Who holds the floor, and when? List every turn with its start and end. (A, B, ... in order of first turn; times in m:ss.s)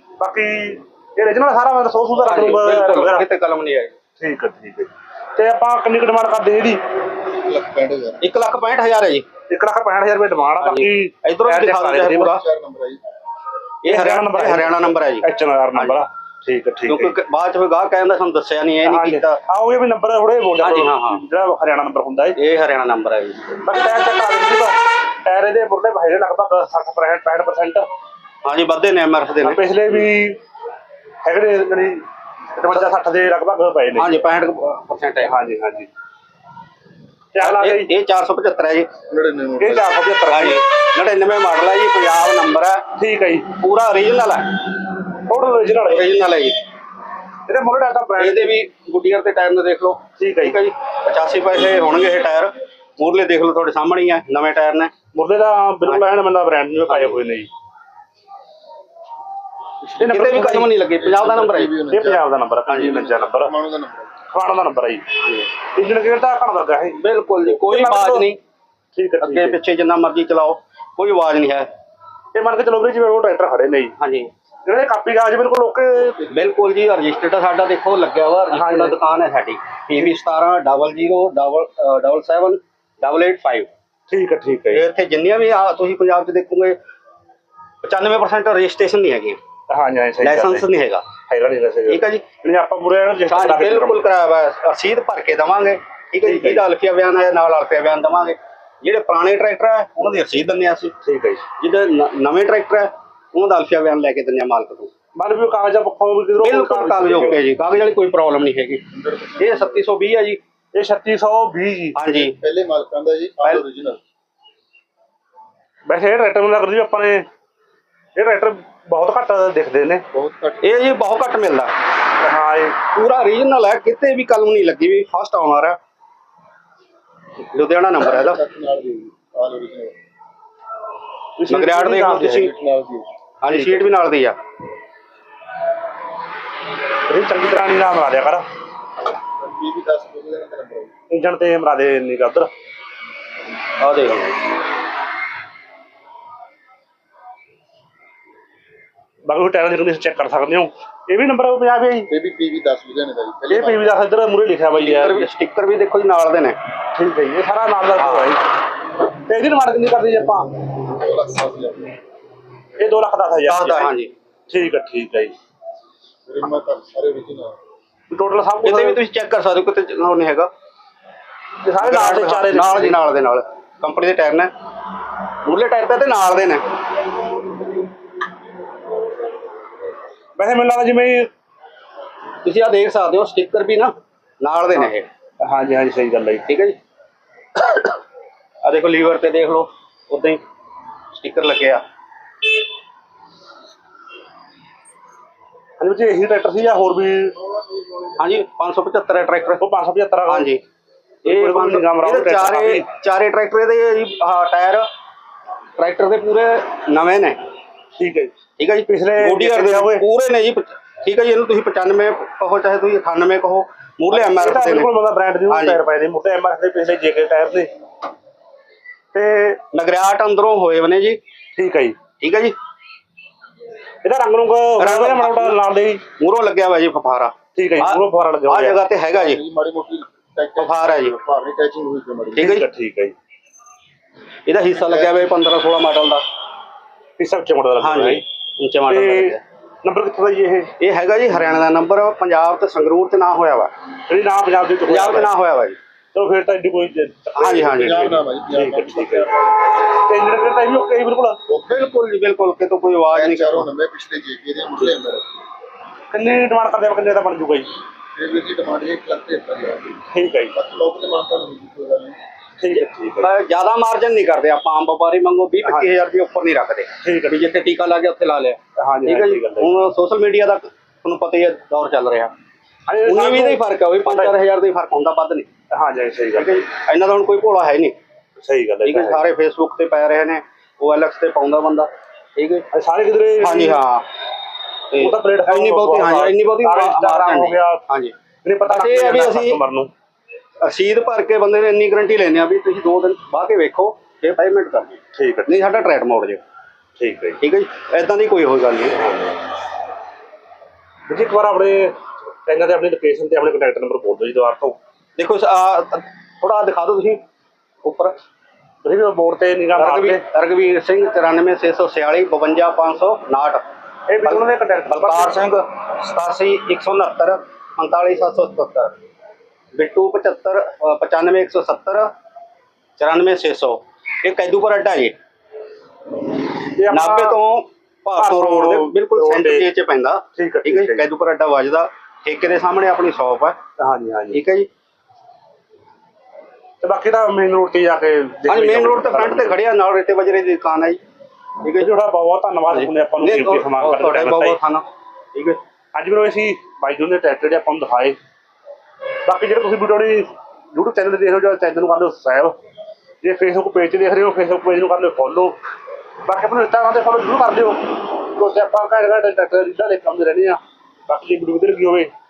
0:00.2-0:03.3 A
0:02.2-0:03.9 B
0:04.2-0:06.8 A
0:07.4-0:08.2 C
0:08.2-0:09.2 B
0:09.5-0:12.4 A
0:10.6-0:12.4 B
0:12.2-0:13.0 C
0:13.8-0:16.0 B
0:13.8-0:17.1 A
0:16.9-0:19.4 B
0:18.8-0:22.4 A
0:20.6-0:21.2 B
0:22.4-0:23.6 B
0:23.6-0:27.9 A
0:28.4-0:29.6 B
0:29.4-0:30.4 A
0:31.2-0:34.1 A
0:33.9-0:35.3 B
0:35.2-0:35.9 A
0:37.3-0:37.9 A
0:37.4-0:38.9 B
0:39.1-0:39.9 C
0:39.6-0:40.6 A
0:40.3-0:42.8 B
0:43.0-0:43.5 A
0:43.6-0:44.5 B
0:45.3-0:46.1 A
0:45.7-0:46.6 B
0:47.5-0:48.5 A
0:48.2-0:54.9 B
0:50.2-0:50.6 A
0:55.1-0:57.5 A
0:56.8-0:57.2 B
0:59.8-1:04.1 C
1:00.0-1:00.7 A
1:00.1-1:01.7 B
1:01.9-1:03.5 A
1:04.3-1:05.1 A
1:05.2-1:05.5 B
1:05.7-1:07.0 A
1:07.0-1:08.4 B
1:07.5-1:08.3 A
1:08.9-1:09.6 A
1:09.2-1:11.7 B
1:12.3-1:13.9 A
1:14.0-1:14.3 B
1:14.6-1:16.2 A
1:16.2-1:23.7 B
1:18.5-1:19.0 A
1:24.1-1:24.8 A
1:24.7-1:26.8 B
1:27.8-1:29.4 B
1:29.7-1:30.7 A
1:30.2-1:31.0 B
1:31.2-1:34.0 A
1:31.9-1:32.2 B
1:33.3-1:40.9 B
1:36.2-1:36.6 A
1:41.0-1:41.4 A
1:41.6-1:44.9 B
1:45.2-1:47.4 A
1:46.4-1:48.8 B
1:48.9-1:49.8 C
1:49.4-1:50.4 B
1:50.7-1:52.0 A
1:52.0-1:52.4 B
1:52.1-1:54.0 C
1:55.9-1:57.2 A
1:58.2-2:00.0 A
2:00.1-2:00.7 C
2:00.6-2:01.7 B
2:02.2-2:02.8 A
2:02.9-2:05.8 B
2:07.5-2:08.4 B
2:08.0-2:09.9 C
2:11.4-2:12.5 A
2:11.5-2:12.5 B
2:12.0-2:13.1 C
2:13.4-2:14.4 B
2:17.1-2:18.4 A
2:19.4-2:20.9 C
2:21.1-2:22.5 A
2:23.8-2:24.3 B
2:29.3-2:32.1 A
2:32.1-2:34.0 C
2:33.5-2:35.3 A
2:34.7-2:36.6 B
2:36.9-2:38.4 A
2:38.0-2:38.3 B
2:39.2-2:40.5 A
2:40.9-2:42.0 C
2:42.8-2:43.9 A
2:43.5-2:44.1 B
2:44.5-2:45.3 A
2:46.3-2:47.6 C
2:48.1-2:49.0 A
2:48.6-2:50.5 B
2:51.6-2:53.0 A
2:51.8-2:54.5 B
2:55.4-2:56.6 B
3:00.4-3:01.3 A
3:02.4-3:05.1 B
3:05.4-3:06.5 A
3:06.5-3:06.8 B
3:08.6-3:10.4 B
3:11.1-3:11.8 B
3:15.8-3:17.4 A
3:18.2-3:19.6 B
3:19.6-3:20.5 A
3:20.3-3:20.6 B
3:21.2-3:22.8 A
3:21.2-3:24.9 B
3:25.8-3:27.4 B
3:28.0-3:28.3 A
3:28.6-3:34.9 B
3:28.9-3:30.0 A
3:34.1-3:37.7 A
3:35.5-3:35.8 B
3:39.1-3:39.6 A
3:39.7-3:41.2 B
3:41.5-3:42.0 A
3:42.2-3:42.5 B
3:44.0-3:46.0 A
3:44.8-3:45.6 B
3:46.1-3:49.4 B
3:47.5-3:48.8 A
3:49.1-3:52.5 C
3:50.6-3:51.2 B
3:52.4-3:52.7 B
3:52.4-3:53.1 A
3:54.4-3:56.2 B
3:57.2-3:58.2 A
3:57.8-3:59.4 B
3:58.9-4:00.7 A
4:00.8-4:03.7 B
4:04.1-4:05.3 A
4:04.9-4:05.8 B
4:06.1-4:11.4 A
4:07.4-4:08.2 B
4:07.7-4:09.5 C
4:11.5-4:11.9 C
4:11.7-4:13.7 B
4:13.1-4:15.2 C
4:16.1-4:17.7 A
4:18.1-4:20.0 C
4:20.1-4:20.6 A
4:20.5-4:22.2 C
4:22.6-4:23.3 A
4:22.7-4:32.3 B
4:25.6-4:25.9 A
4:27.0-4:27.4 A
4:28.8-4:29.8 A
4:32.9-4:34.3 A
4:33.0-4:35.5 B
4:35.7-4:36.5 A
4:36.3-4:37.9 B
4:38.4-4:39.2 A
4:38.8-4:42.6 B
4:42.7-4:43.8 A
4:43.4-4:44.0 B
4:44.9-4:49.6 B
4:45.0-4:47.8 A
4:48.4-4:49.9 A
4:50.6-4:56.4 B
4:55.1-4:55.6 A
4:57.0-4:57.4 A
4:57.4-4:59.0 B
4:59.0-4:59.4 A
5:01.1-5:04.8 A
5:05.2-5:07.2 B
5:07.8-5:08.2 B
5:08.8-5:10.2 A
5:09.8-5:13.6 B
5:14.1-5:15.4 A
5:14.2-5:18.9 B
5:19.7-5:22.1 B
5:23.0-5:25.2 B
5:26.7-5:27.4 A
5:26.9-5:33.6 B
5:28.2-5:29.7 A
5:30.3-5:31.0 A
5:33.8-5:34.4 A
5:34.3-5:34.7 B
5:36.8-5:39.6 A
5:38.5-5:41.0 B
5:41.6-5:41.9 B
5:41.8-5:44.6 A
5:42.7-5:45.6 B
5:45.9-5:48.2 A
5:49.2-5:52.5 A
5:53.2-5:55.6 A
5:56.2-6:02.1 A